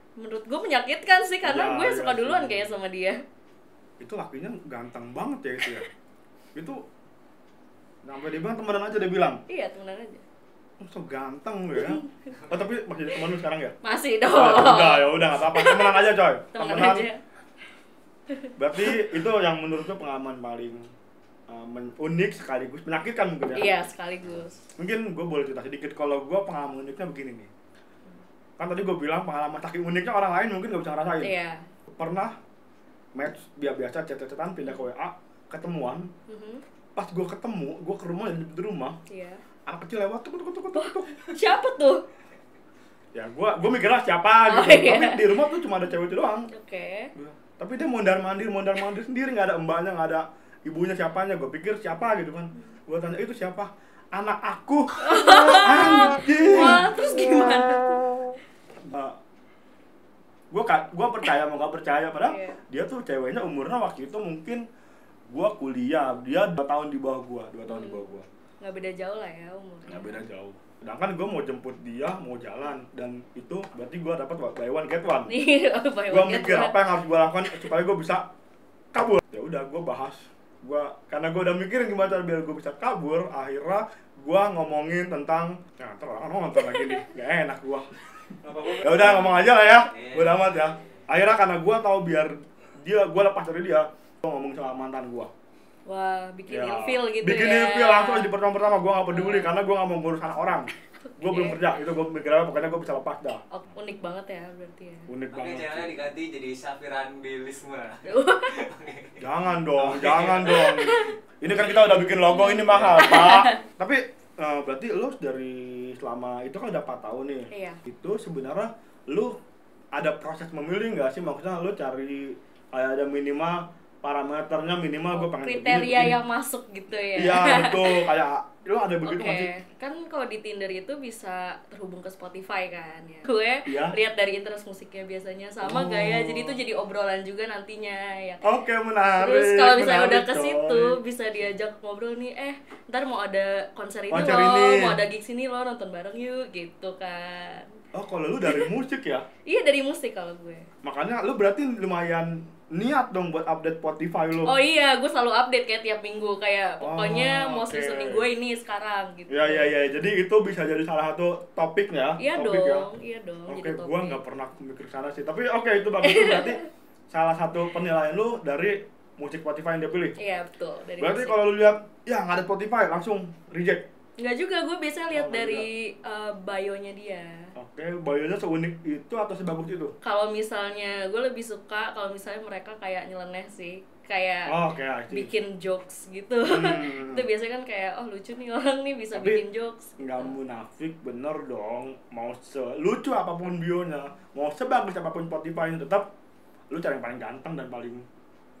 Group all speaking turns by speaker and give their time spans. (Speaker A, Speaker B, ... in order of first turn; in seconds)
Speaker A: 0.2-3.2, 9.5-10.2, 11.7-12.3, 13.8-17.2, 18.3-19.0, 23.5-24.6, 31.2-31.6, 36.3-36.6, 39.1-39.4, 40.7-42.0, 44.4-45.4, 46.5-47.1, 55.0-58.0, 62.2-62.6, 67.7-70.2, 75.2-76.8, 95.8-98.3, 99.1-99.6, 101.2-101.7, 103.5-105.1, 108.0-108.7, 110.6-111.1, 112.3-113.6, 117.5-117.8, 125.1-128.1, 129.0-138.4, 139.1-147.7, 148.4-148.7, 149.4-150.7, 154.4-159.7, 162.2-164.2, 166.0-166.7, 170.2-171.5, 174.2-177.5, 180.0-184.5, 185.1-190.3
Speaker B: 1.4-2.7, 4.0-5.9, 6.5-6.8, 8.0-9.4, 10.8-13.7, 14.3-17.1, 18.6-20.8, 21.5-23.7, 24.8-27.5, 28.6-31.3, 31.9-32.3, 33.1-36.1, 37.0-39.0, 39.6-41.3, 43.1-46.5, 47.1-57.9, 58.9-59.1, 60.5-64.6, 65.3-68.3, 69.9-75.3, 76.1-78.2, 78.9-87.9, 88.6-95.3, 96.5-103.4, 105.1-106.0, 109.2-119.3, 119.9-126.2, 127.1-129.5, 133.7-133.9, 135.6-136.6, 138.4-140.9, 144.1-145.0, 147.9-149.2, 150.8-154.5, 156.8-158.2, 159.3-162.9, 163.5-170.1, 171.0-173.8, 175.1-175.7, 177.6-179.9, 184.5-185.3, 186.4-187.2, 189.1-189.4, 190.0-196.1, 196.7-198.0
Speaker C: 88.4-88.8, 89.9-90.7, 105.3-109.2, 109.7-110.7